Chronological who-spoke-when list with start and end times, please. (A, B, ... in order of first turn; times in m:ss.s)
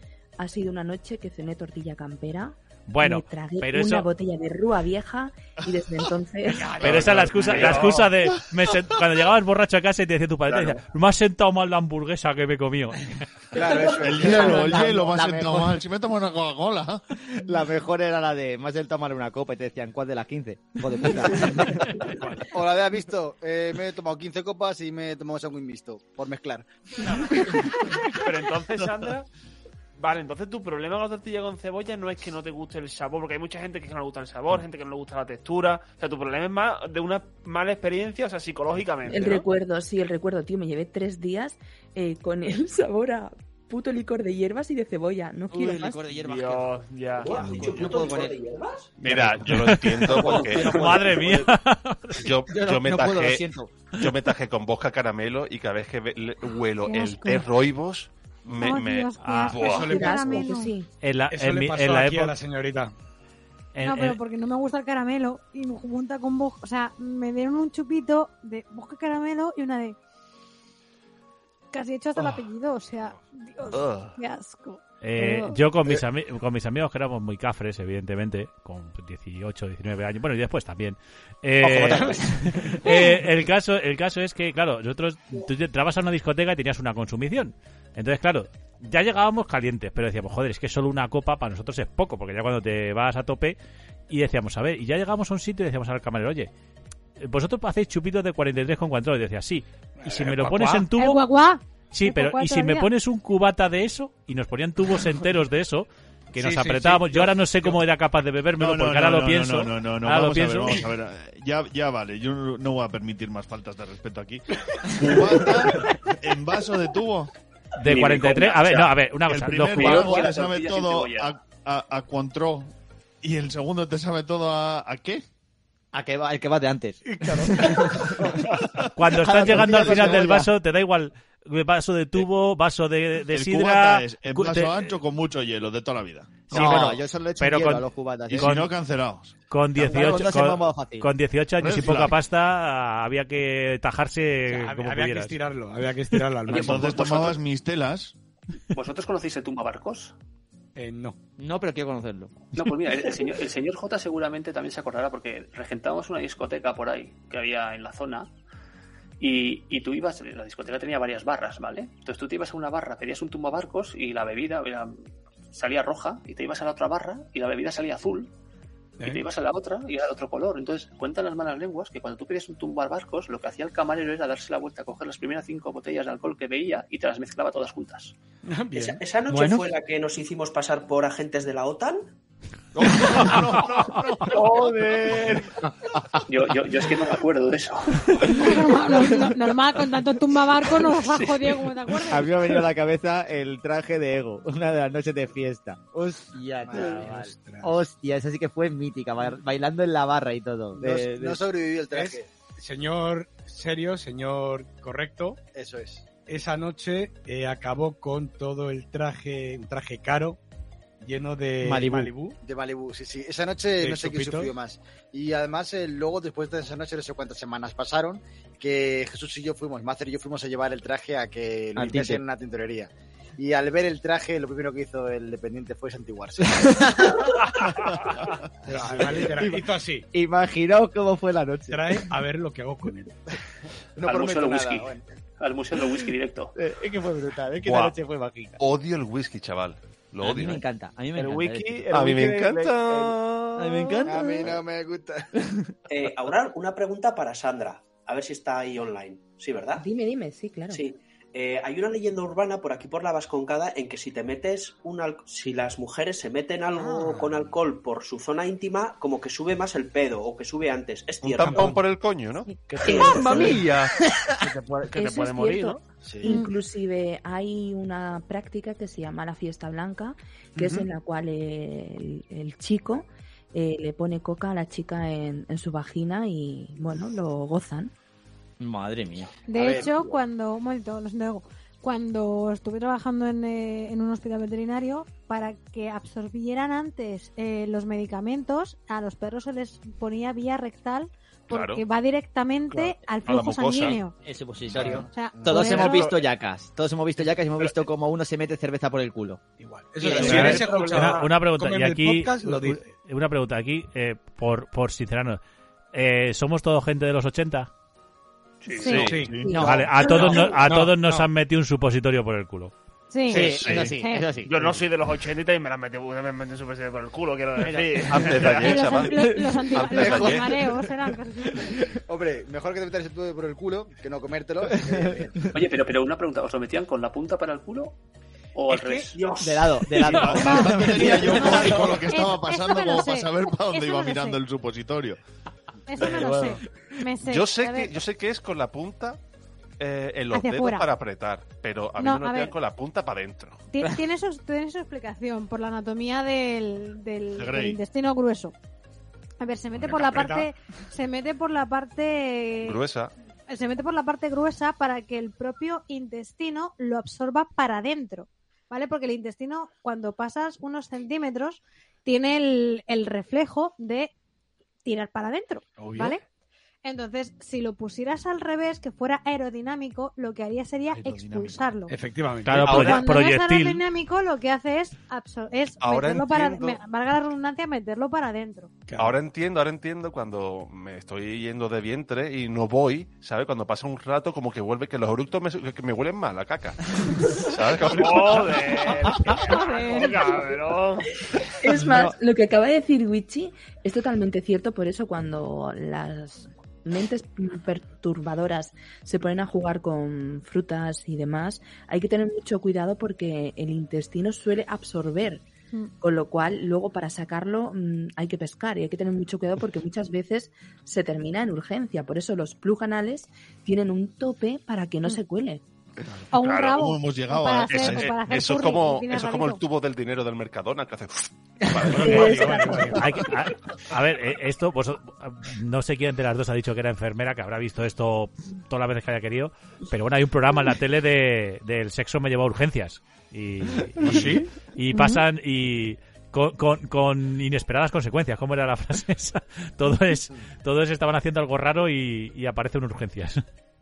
0:00.4-0:07.6 A
0:02.9-0:04.1 B
0:06.8-0:13.0 B
0:06.9-0:07.2 C
0:06.9-0:07.9 D
0:07.5-0:08.0 E
0:13.5-0:15.0 F
0:13.8-0:17.0 C
0:14.1-0:15.8 G
0:17.3-0:22.1 G
0:22.5-0:26.7 F
0:28.0-0:29.3 E
0:30.0-0:39.5 E
0:39.1-0:46.0 A
0:45.5-0:46.8 G
0:46.1-0:47.6 E
0:47.2-0:48.9 H
0:47.3-0:48.3 G
0:49.0-0:51.4 I
0:49.4-0:52.3 B
0:50.2-0:51.1 G
0:52.2-1:00.0 I
0:52.5-0:53.7 G
0:56.8-0:57.5 J
0:58.6-1:00.7 J
0:59.2-0:59.7 B
0:59.6-1:00.4 D
0:59.8-1:00.9 A
1:01.0-1:02.4 B
1:01.3-1:02.9 D
1:03.8-1:04.2 B
1:03.8-1:10.0 J
1:11.7-1:15.6 J
1:15.0-1:33.6 B
1:21.6-1:22.4 G
1:22.9-1:23.1 J
1:34.1-1:36.5 B
1:37.2-1:41.2 B
1:40.0-1:40.8 D
1:40.9-1:42.9 J
1:41.9-1:50.9 B
1:46.3-1:47.8 D
1:48.6-1:57.3 C
1:57.8-2:00.2 B
1:57.8-1:58.9 K
1:59.3-2:05.2 C
1:59.7-2:01.4 K
2:05.9-2:08.1 G
2:07.2-2:07.5 D
2:09.0-2:15.0 B
2:09.2-2:10.5 G
2:09.2-2:10.4 C
2:13.3-2:16.8 C
2:16.5-2:18.7 B
2:16.5-2:18.6 G
2:18.3-2:19.4 C
2:19.5-2:25.4 B
2:19.8-2:21.1 G
2:21.6-2:22.2 C
2:24.5-2:27.1 D
2:26.5-2:27.4 K
2:26.5-2:28.2 C
2:28.7-2:30.2 K
2:30.8-2:31.2 D
2:31.4-2:32.4 G
2:32.6-2:38.3 K
2:39.2-2:48.3 K
2:49.0-2:58.2 K
2:58.5-2:59.0 D
2:58.7-3:02.1 H
3:02.9-3:04.4 C
3:04.3-3:05.4 E
3:06.3-3:08.4 K
3:08.2-3:12.4 J
3:08.9-3:09.3 G
3:11.0-3:11.6 K
3:12.1-3:21.4 G
3:16.7-3:17.1 F
3:16.8-3:17.8 D
3:20.8-3:22.3 F
3:21.9-3:25.4 D
3:25.5-3:26.1 F
3:26.3-3:30.4 D
3:31.0-3:32.4 D
3:31.6-3:32.1 G
3:32.4-3:46.6 F
3:33.8-3:34.5 D
3:41.8-3:42.2 G
3:46.5-3:47.2 G
3:47.6-3:48.3 E
3:48.7-3:50.1 D
3:48.7-3:49.3 F
3:48.9-3:52.0 G
3:51.7-3:53.1 D
3:54.0-3:55.0 F
3:54.0-3:56.5 K
3:56.6-3:58.6 G
3:57.6-3:58.0 I
3:58.6-4:00.6 I
4:00.2-4:01.9 G
4:01.2-4:03.2 E
4:01.9-4:04.0 I
4:03.6-4:04.6 G
4:04.0-4:05.2 F
4:05.9-4:09.8 H
4:09.8-4:10.8 A
4:10.7-4:21.8 H
4:21.2-4:23.6 I
4:22.7-4:25.8 E
4:22.9-4:23.5 H
4:23.1-4:23.6 G
4:24.9-4:37.9 A
4:38.6-4:39.3 G
4:39.5-4:54.2 J
4:39.6-4:40.2 F
4:51.5-4:51.8 I
4:53.2-4:54.0 I
4:54.2-4:59.4 G
4:54.8-4:56.2 J
4:59.6-5:02.9 D
5:00.0-5:01.3 E
5:00.0-5:00.7 G
5:00.1-5:05.4 B
5:05.9-5:07.7 B
5:08.6-5:09.2 K
5:08.8-5:09.2 I
5:08.9-5:10.4 A
5:09.1-5:09.4 D
5:09.1-5:09.6 C
5:09.6-5:12.7 B
5:10.2-5:11.3 D
5:13.1-5:14.3 J
5:13.3-5:14.8 G
5:13.6-5:13.9 I
5:14.4-5:18.8 E
5:17.6-5:18.0 G
5:18.1-5:20.7 I
5:18.6-5:21.8 J
5:22.1-5:25.4 F
5:25.5-5:28.0 K
5:28.6-5:29.2 K
5:28.7-5:29.1 D
5:29.4-5:31.8 G
5:30.0-5:35.2 C
5:30.4-5:34.4 J
5:35.9-5:38.0 J
5:36.0-5:36.3 I
5:37.2-5:39.2 I
5:39.8-5:43.6 I
5:40.3-5:40.9 J
5:42.0-5:42.5 J
5:43.7-5:48.5 J
5:47.3-5:47.8 C
5:49.4-5:52.8 J
5:49.8-5:50.5 D
5:52.6-5:53.1 I
5:53.5-6:04.1 J
6:04.8-6:06.2 J
6:05.8-6:06.2 D
6:06.8-6:11.9 J
6:10.9-6:11.7 C
6:11.9-6:13.0 D
6:12.4-6:13.8 B
6:12.6-6:18.8 J
6:15.8-6:16.8 I
6:18.9-6:19.2 D
6:19.0-6:29.3 I
6:27.9-6:31.1 E
6:29.5-6:30.6 J
6:31.6-6:45.4 A
6:46.0-6:55.6 A
6:56.3-6:59.6 J
6:56.4-6:56.8 I
6:56.7-6:58.1 C
6:57.7-7:02.9 I
7:01.9-7:03.2 D
7:02.0-7:23.4 B
7:02.1-7:02.9 A
7:14.0-7:14.5 D